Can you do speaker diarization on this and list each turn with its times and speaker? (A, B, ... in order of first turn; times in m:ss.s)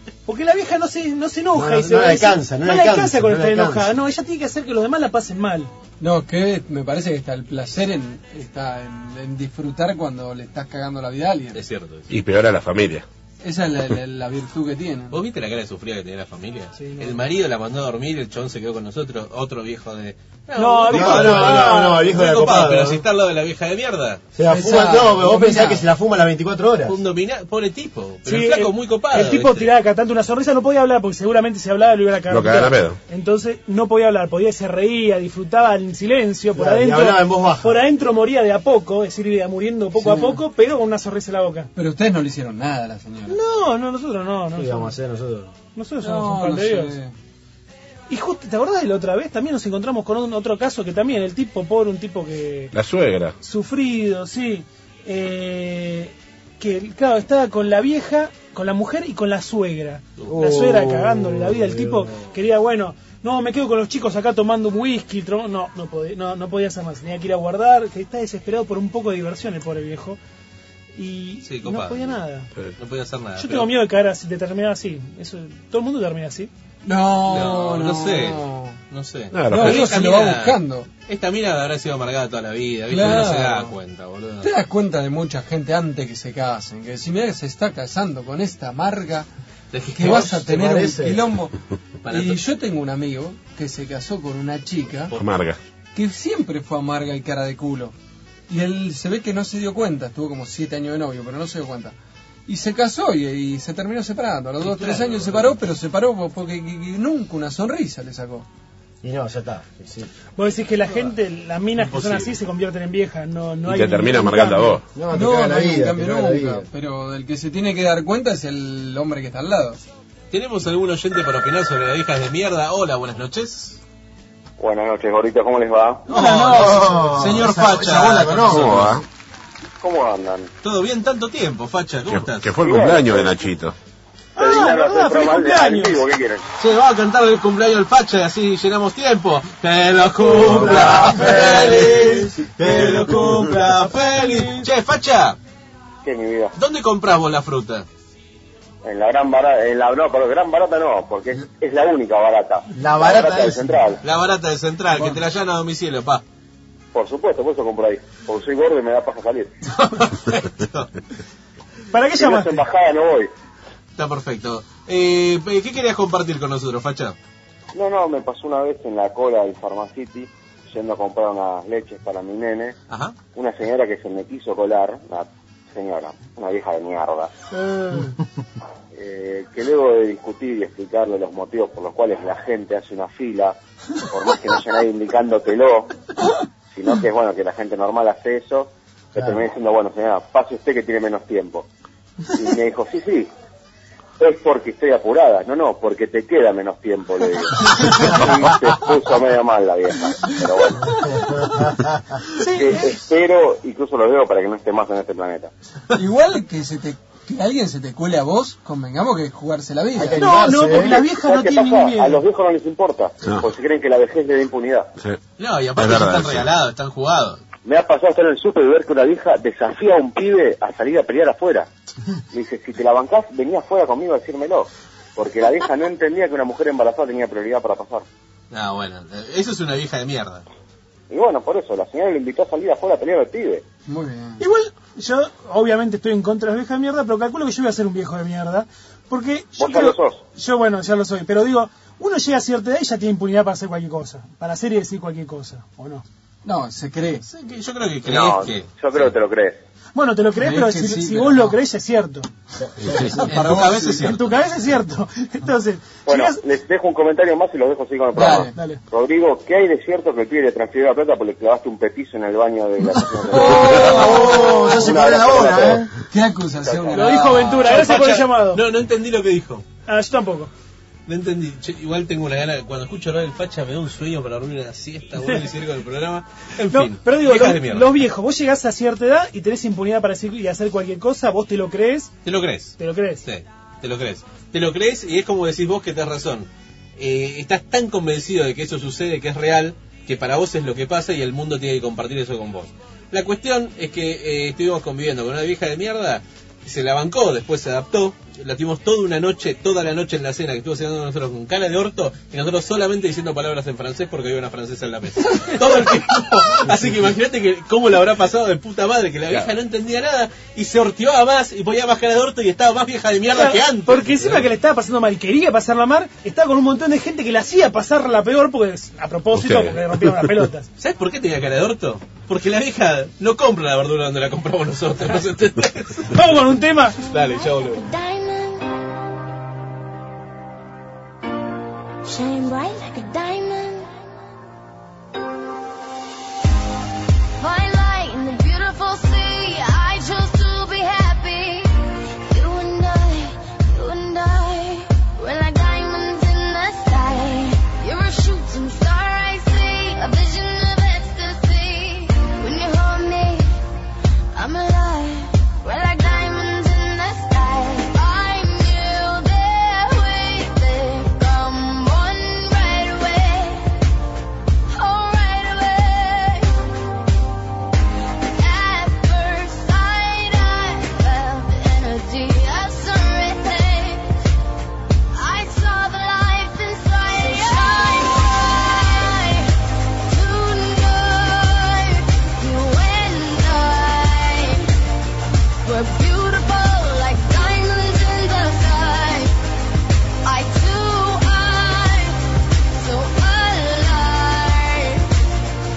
0:00.3-0:05.7 A
0:01.5-0:03.9 B
0:06.0-0:11.6 C
0:11.5-0:12.1 D
0:12.1-0:13.0 E
0:13.4-0:15.2 C
0:15.1-0:24.2 D
0:16.8-0:17.2 A
0:20.6-0:22.1 A
0:20.9-0:23.0 B
0:24.4-0:27.0 B
0:24.4-0:25.8 C
0:26.9-0:29.7 D
0:28.3-0:41.7 A
0:32.3-0:33.0 E
0:36.5-0:37.8 B
0:40.0-0:40.4 C
0:41.8-0:43.4 C
0:43.3-0:44.9 A
0:44.5-0:45.5 B
0:45.7-0:46.9 A
0:46.0-0:47.1 C
0:48.1-0:52.7 A
0:52.7-0:53.3 E
0:53.4-1:10.2 A
1:00.3-1:02.3 B
1:11.0-1:12.5 A
1:11.4-1:12.2 D
1:12.8-1:13.7 D
1:13.4-1:16.5 A
1:16.8-1:18.8 C
1:17.3-1:24.5 D
1:19.3-1:19.9 E
1:19.5-1:20.9 C
1:22.9-1:23.7 C
1:24.4-1:29.3 C
1:29.7-1:30.3 D
1:30.0-1:31.6 C
1:30.2-1:31.2 B
1:32.0-1:32.4 D
1:32.1-1:35.1 C
1:35.1-1:35.6 E
1:35.9-1:37.9 C
1:38.5-1:41.9 C
1:42.5-1:48.5 C
1:44.6-1:45.6 D
1:49.0-1:50.1 B
1:50.4-1:54.8 A
1:51.8-1:52.4 D
1:53.6-1:54.8 E
1:54.9-1:56.7 B
1:55.1-1:59.8 C
2:00.3-2:03.8 D
2:04.6-2:06.0 F
2:06.1-2:07.2 A
2:06.1-2:08.9 D
2:06.5-2:08.9 B
2:08.5-2:09.0 E
2:09.8-2:10.5 F
2:10.6-2:12.5 D
2:12.1-2:13.7 E
2:12.6-2:13.4 F
2:14.4-2:16.0 A
2:14.4-2:16.4 F
2:16.6-2:25.4 D
2:20.2-2:23.6 B
2:23.8-2:24.7 A
2:26.0-2:26.5 F
2:26.6-2:27.9 D
2:28.8-2:34.0 F
2:32.7-2:33.9 B
2:34.0-2:36.2 D
2:36.9-2:39.5 F
2:39.8-2:40.9 D
2:41.9-2:42.6 A
2:42.2-2:43.3 F
2:44.0-2:47.2 D
2:47.7-2:52.7 F
2:52.9-2:53.2 D
2:53.3-2:57.3 F
2:59.0-3:03.6 F
3:04.1-3:05.9 F
3:06.7-3:11.7 F
3:12.3-3:13.3 F
3:14.2-3:20.9 F
3:21.2-3:21.9 B
3:22.4-3:23.0 A
3:22.6-3:25.5 F
3:25.9-3:30.2 C
3:30.0-3:31.1 B
3:30.2-3:32.2 A
3:31.2-3:34.9 F
3:35.4-3:37.4 D
3:35.8-3:36.5 E
3:37.7-3:41.7 F
3:42.3-3:48.0 F
3:48.5-3:50.4 D
3:51.1-3:53.6 F
3:53.9-3:54.4 C
3:54.4-4:06.0 A
3:59.6-4:00.2 F
4:06.4-4:07.3 C
4:07.3-4:09.1 D
4:08.1-4:09.6 F
4:10.0-4:12.3 A
4:10.4-4:11.6 C
4:12.9-4:14.1 C
4:13.1-4:14.2 D
4:14.0-4:16.4 A
4:16.0-4:25.8 F
4:18.1-4:18.5 C
4:18.5-4:18.8 A
4:23.2-4:24.6 C
4:23.7-4:25.9 B
4:26.1-4:27.9 C
4:26.6-4:27.0 F
4:27.0-4:28.6 A
4:27.3-4:29.6 D
4:29.9-4:30.5 A
4:31.1-4:38.0 D
4:36.7-4:42.1 A
4:42.2-5:14.5 D
4:42.8-4:43.2 A
5:13.3-5:20.7 A
5:19.3-5:20.3 E
5:20.8-5:26.4 D
5:26.1-5:27.0 A
5:27.1-5:27.8 D
5:27.2-5:28.7 G
5:32.0-5:33.9 G
5:37.4-5:41.8 G
5:42.3-5:53.6 G
5:54.3-6:03.7 G
6:04.7-6:06.6 G
6:08.3-6:14.2 G
6:15.1-6:19.5 G
6:20.0-6:24.7 G
6:25.6-6:29.3 G
6:30.2-6:32.2 G
6:32.8-6:35.1 G